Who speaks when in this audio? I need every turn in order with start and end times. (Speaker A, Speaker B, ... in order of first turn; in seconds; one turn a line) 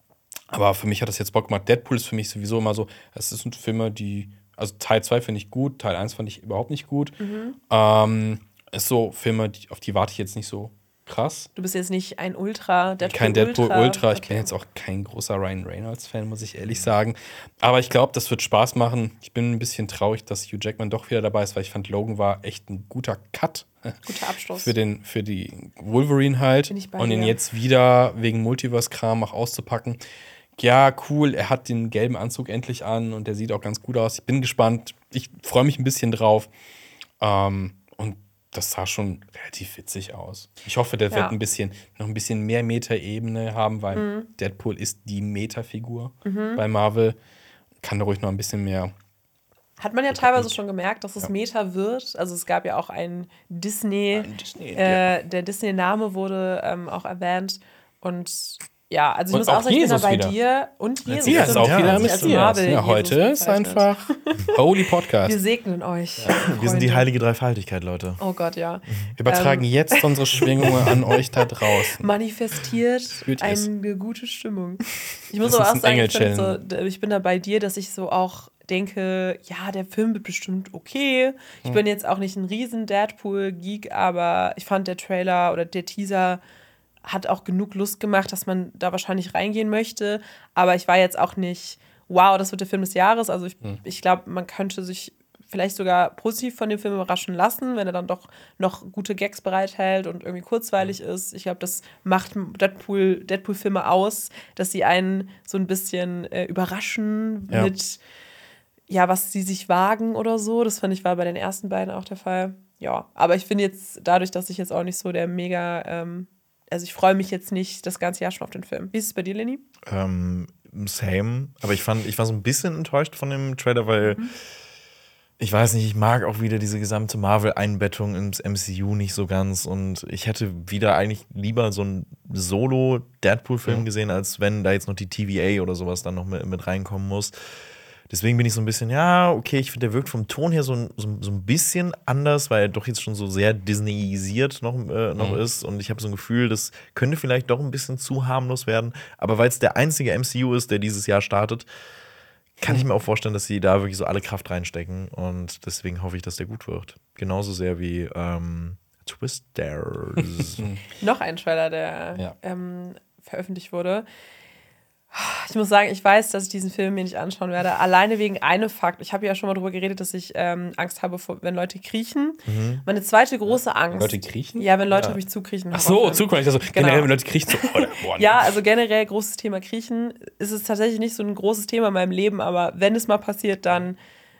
Speaker A: 0.5-7.2
Speaker B: 7.2-7.5
Speaker A: 7.7-11.5
Speaker B: 11.6-14.5
Speaker A: 13.0-24.0
Speaker B: 24.1-24.7
Speaker A: 24.6-30.0
Speaker B: 26.7-27.4
Speaker A: 30.6-36.5
Speaker A: 37.2-47.2
Speaker B: 41.1-41.4
Speaker B: 43.9-44.3
Speaker B: 46.2-46.6
Speaker A: 47.8-48.9
Speaker B: 49.8-64.6
Speaker A: 50.1-50.5
Speaker A: 54.1-55.0
Speaker A: 59.3-60.3
Speaker A: 61.1-65.4
Speaker C: 61.3-62.5
Speaker B: 65.2-67.1
Speaker C: 66.3-68.2
Speaker B: 68.2-70.9
Speaker A: 69.2-72.1
Speaker B: 71.6-86.4
Speaker A: 73.2-73.7
Speaker A: 75.4-76.6
Speaker B: 87.0-108.0
Speaker B: 108.9-119.6
Speaker C: 119.8-124.2
Speaker B: 124.0-124.3
Speaker C: 125.4-137.3
Speaker C: 138.1-151.7
Speaker C: 152.6-160.7
Speaker A: 160.2-160.8
Speaker B: 161.0-164.1
Speaker B: 165.1-184.0
Speaker C: 172.5-172.8
Speaker A: 173.9-174.7
Speaker C: 174.9-175.2
Speaker A: 175.7-178.5